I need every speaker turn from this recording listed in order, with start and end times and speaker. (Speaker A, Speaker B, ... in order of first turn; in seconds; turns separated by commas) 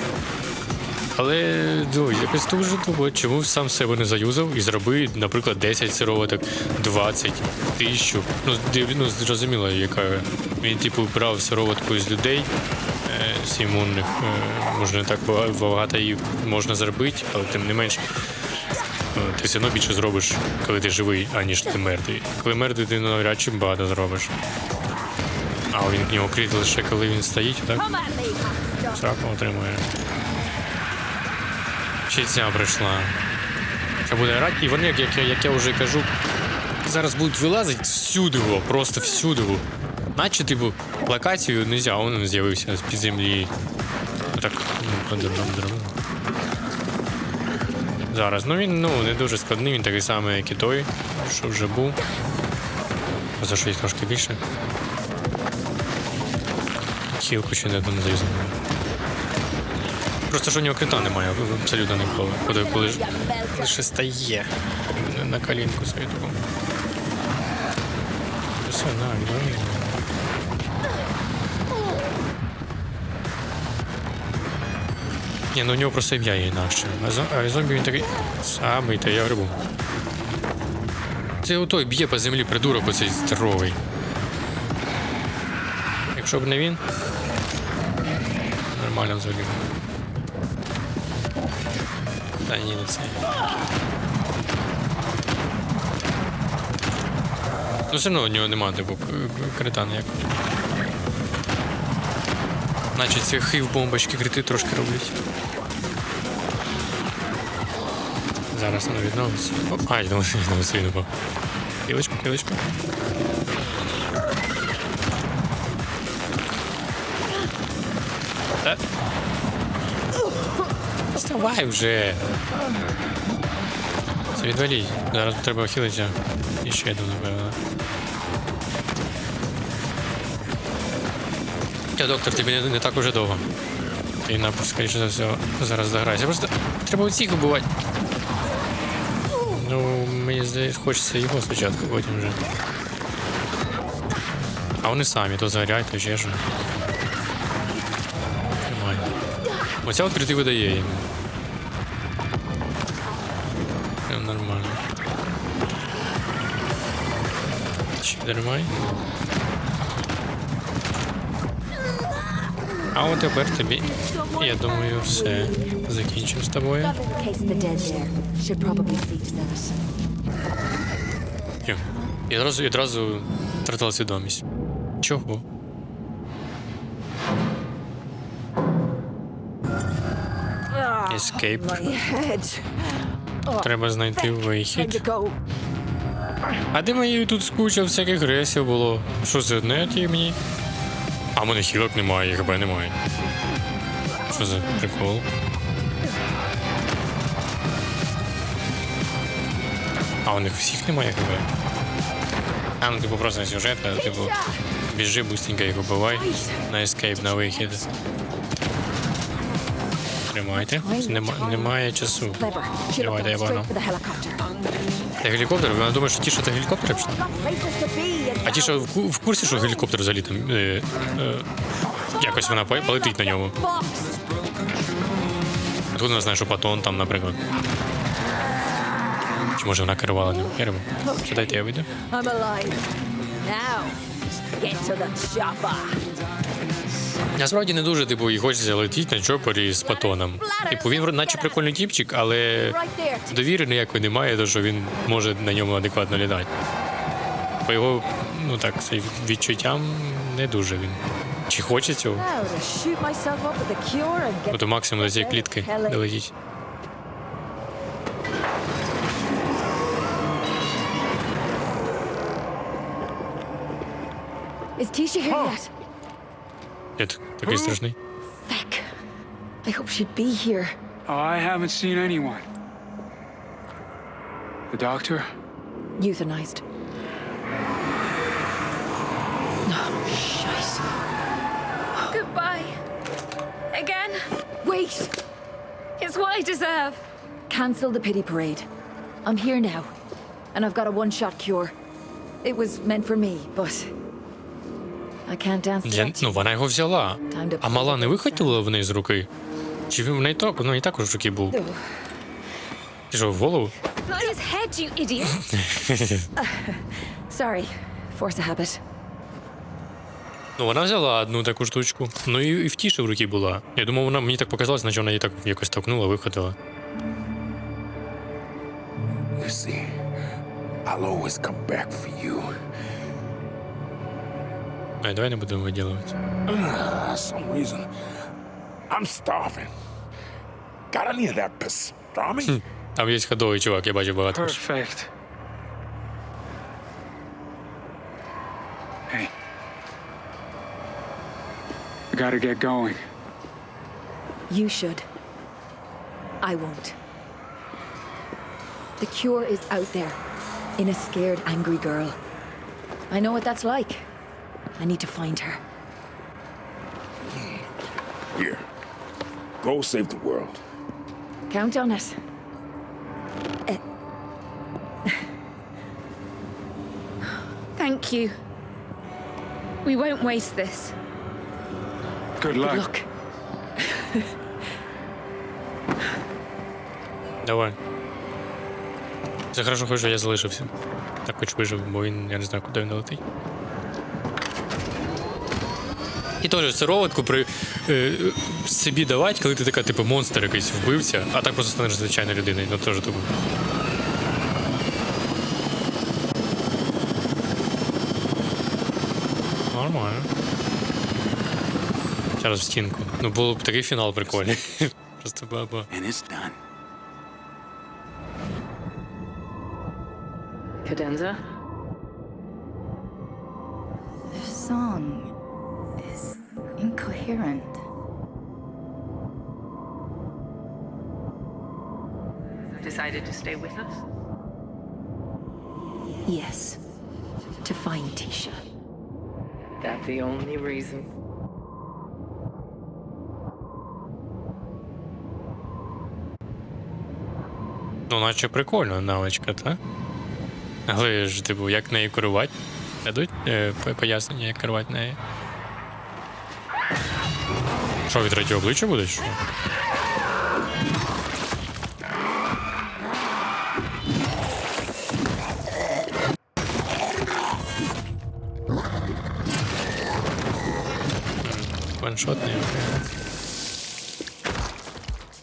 Speaker A: 1.1-12.5, Speaker A: 13.1-18.0, Speaker A: 19.1-24.3, Speaker A: 25.7-27.9, Speaker B: 27.7-29.0, Speaker A: 28.9-29.9, Speaker A: 32.1-33.2, Speaker A: 34.0-36.1, Speaker A: 36.8-39.6, Speaker A: 40.1-43.5, Speaker A: 44.3-45.9, Speaker A: 48.1-52.0, Speaker A: 53.4-54.4, Speaker A: 57.1-58.6, Speaker A: 60.3-66.4, Speaker B: 62.4-63.8, Speaker A: 68.6-70.0, Speaker A: 75.5-79.6, Speaker A: 81.4-83.8, Speaker A: 86.1-86.8, Speaker A: 88.7-89.7, Speaker A: 92.5-93.3, Speaker A: 97.9-100.2, Speaker A: 102.9-105.1, Speaker A: 108.5-111.1, Speaker A: 111.8-112.6, Speaker A: 121.1-122.2, Speaker A: 124.3-127.6, Speaker A: 131.9-133.4, Speaker A: 134.2-137.7, Speaker A: 139.4-142.4, Speaker A: 144.8-146.4, Speaker A: 148.7-149.1, Speaker A: 149.8-151.1, Speaker A: 154.1-154.8, Speaker A: 158.0-158.7, Speaker A: 162.9-167.0, Speaker B: 164.4-165.7, Speaker B: 166.8-169.8, Speaker A: 171.6-174.4, Speaker A: 175.0-175.4, Speaker B: 180.7-185.4, Speaker A: 181.1-181.9, Speaker A: 183.6-185.0, Speaker A: 186.7-190.4, Speaker A: 191.3-193.0, Speaker A: 194.3-195.2, Speaker A: 200.2-201.5, Speaker A: 202.8-204.3, Speaker B: 203.9-204.6, Speaker A: 204.9-207.8, Speaker B: 206.1-206.6, Speaker B: 207.3-207.8, Speaker A: 210.3-212.4, Speaker B: 210.5-214.5, Speaker A: 213.0-213.7, Speaker A: 215.2-217.1, Speaker B: 217.0-218.9, Speaker A: 218.4-221.5, Speaker A: 222.2-223.5, Speaker B: 222.9-224.2, Speaker A: 225.9-227.4, Speaker A: 229.5-231.9, Speaker B: 231.0-232.9, Speaker B: 233.4-234.0, Speaker B: 234.6-236.0, Speaker A: 237.3-242.8, Speaker B: 239.8-241.6, Speaker B: 242.6-243.4, Speaker A: 243.3-246.5, Speaker A: 247.7-252.3, Speaker B: 252.1-256.1, Speaker A: 254.5-256.3, Speaker B: 264.8-265.7, Speaker A: 267.0-267.9, Speaker B: 268.4-268.8, Speaker B: 269.6-270.7, Speaker C: 271.1-272.4, Speaker C: 274.7-275.3, Speaker B: 276.0-276.6, Speaker B: 279.6-280.8, Speaker D: 282.1-282.7, Speaker D: 283.7-284.2, Speaker B: 284.6-285.1, Speaker D: 286.0-287.0, Speaker B: 287.5-288.6, Speaker B: 289.2-289.9, Speaker B: 290.5-291.7, Speaker B: 292.4-293.9, Speaker B: 295.3-296.5, Speaker A: 295.8-299.3, Speaker B: 297.3-298.6, Speaker A: 299.9-301.6, Speaker B: 301.5-301.8, Speaker A: 303.1-303.7, Speaker B: 304.1-305.3, Speaker A: 305.2-306.3, Speaker B: 306.4-308.8, Speaker A: 310.6-316.6, Speaker E: 319.4-319.9, Speaker E: 320.9-322.5, Speaker A: 325.0-326.2, Speaker E: 326.5-327.9, Speaker E: 328.9-329.7, Speaker E: 330.9-332.5, Speaker A: 332.5-334.6, Speaker C: 334.3-335.1, Speaker C: 342.1-343.0, Speaker B: 344.5-345.0, Speaker B: 346.4-347.0, Speaker B: 349.0-350.2, Speaker B: 350.8-352.2, Speaker B: 353.1-354.1, Speaker B: 354.8-355.6, Speaker E: 358.3-358.6, Speaker E: 359.6-360.6, Speaker B: 361.5-362.1, Speaker D: 367.8-368.3, Speaker D: 369.8-370.9, Speaker C: 372.4-372.9, Speaker B: 372.6-373.1, Speaker B: 373.8-374.3, Speaker A: 377.4-377.8, Speaker A: 379.5-380.7, Speaker A: 381.2-383.2, Speaker A: 386.4-393.3, Speaker A: 399.7-400.3, Speaker A: 402.4-405.9, Speaker C: 405.9-406.5, Speaker F: 410.9-411.4, Speaker G: 414.3-415.3, Speaker G: 416.0-417.8, Speaker F: 422.8-424.0, Speaker B: 426.3-426.8, Speaker B: 427.6-428.6, Speaker F: 429.8-431.1, Speaker A: 438.1-439.8, Speaker A: 440.9-445.2, Speaker A: 448.1-449.4, Speaker A: 461.4-463.0